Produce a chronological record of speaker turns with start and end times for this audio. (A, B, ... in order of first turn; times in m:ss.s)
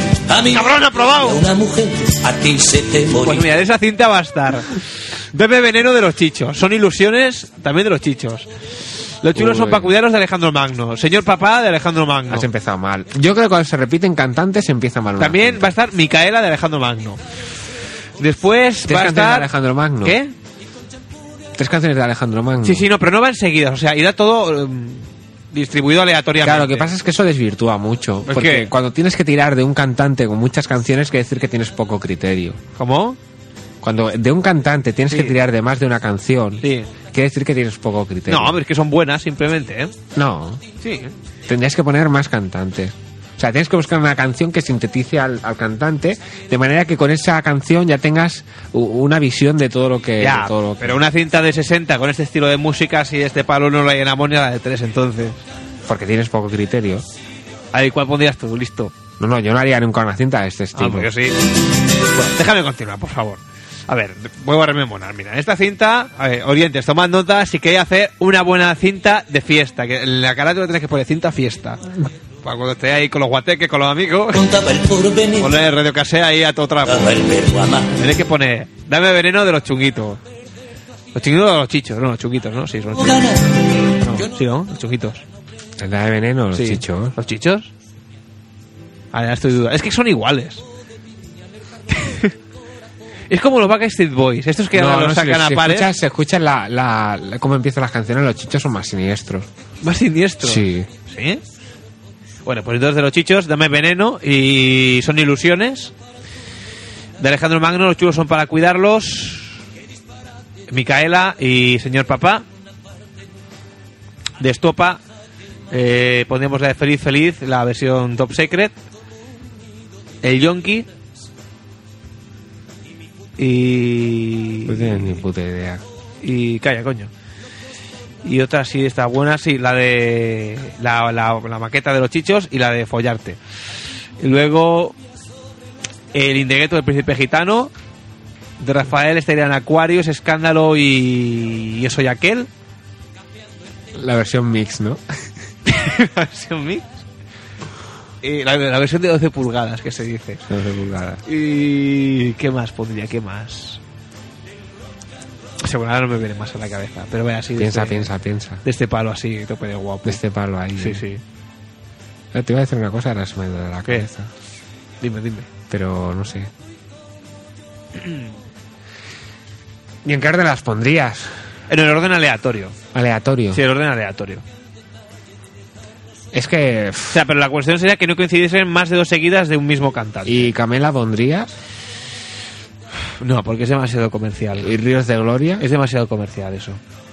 0:00.3-0:03.5 A
0:00.5-0:01.4 B
0:03.2-0:04.8 B
0:05.3-0:08.5 B
0:09.2-0:12.5 B
0:09.3-0:09.9 C
0:12.3-0:15.7 C
0:15.2-0:17.2 B
0:18.2-0:19.5 B
0:18.8-0:20.2 C
0:20.0-0:20.3 B
0:21.6-0:22.9 C
0:22.6-0:26.9 B
0:26.4-0:32.6 C
0:28.2-0:28.7 B
0:32.8-0:33.2 B
0:33.8-0:38.6 C
0:35.1-0:35.4 B
0:36.6-0:36.9 B
0:38.3-0:39.9 B
0:40.1-0:40.6 C
0:40.8-0:41.1 B
0:41.5-0:51.0 C
0:50.2-0:55.4 B
0:55.8-0:57.0 C
0:57.7-0:58.9 B
0:59.2-1:01.1 C
1:00.7-1:01.4 B
1:02.2-1:11.8 B
1:12.4-1:14.4 B
1:14.3-1:15.6 A
1:15.4-1:17.2 B
1:16.8-1:17.9 A
1:17.9-1:20.2 B
1:21.1-1:23.3 B
1:23.0-1:23.4 A
1:24.0-1:25.2 B
1:25.8-1:27.2 C
1:26.5-1:27.7 B
1:29.1-1:30.6 B
1:31.9-1:32.3 B
1:33.3-1:35.9 B
1:34.7-1:39.5 C
1:39.8-1:41.4 B
1:40.4-1:40.9 C
1:42.4-1:45.9 B
1:47.2-1:49.6 B
1:50.7-1:52.4 B
1:54.4-1:55.0 B
1:55.7-1:58.7 B
2:00.2-2:00.9 B
2:03.4-2:05.2 B
2:04.6-2:05.8 C
2:06.2-2:07.1 B
2:08.2-2:13.4 B
2:14.2-2:15.0 B
2:16.1-2:17.7 B
2:18.6-2:22.5 B
2:23.9-2:25.0 C
2:25.6-2:26.8 B
2:28.2-2:30.4 B
2:30.5-2:31.2 C
2:31.2-2:33.8 B
2:35.6-2:38.1 B
2:37.6-2:38.6 C
2:38.6-2:40.2 B
2:40.0-2:41.0 C
2:40.8-2:41.2 B
2:42.3-2:44.3 C
2:45.0-2:45.5 B
2:45.7-2:46.5 C
2:48.0-2:48.2 B
2:50.0-2:51.3 C
2:51.7-2:52.8 B
2:52.9-2:53.6 C
2:53.5-2:54.4 B
2:56.3-2:57.2 C
2:57.1-3:00.5 B
3:00.2-3:01.5 C
3:03.2-3:04.7 B
3:04.6-3:05.7 C
3:05.6-3:06.8 B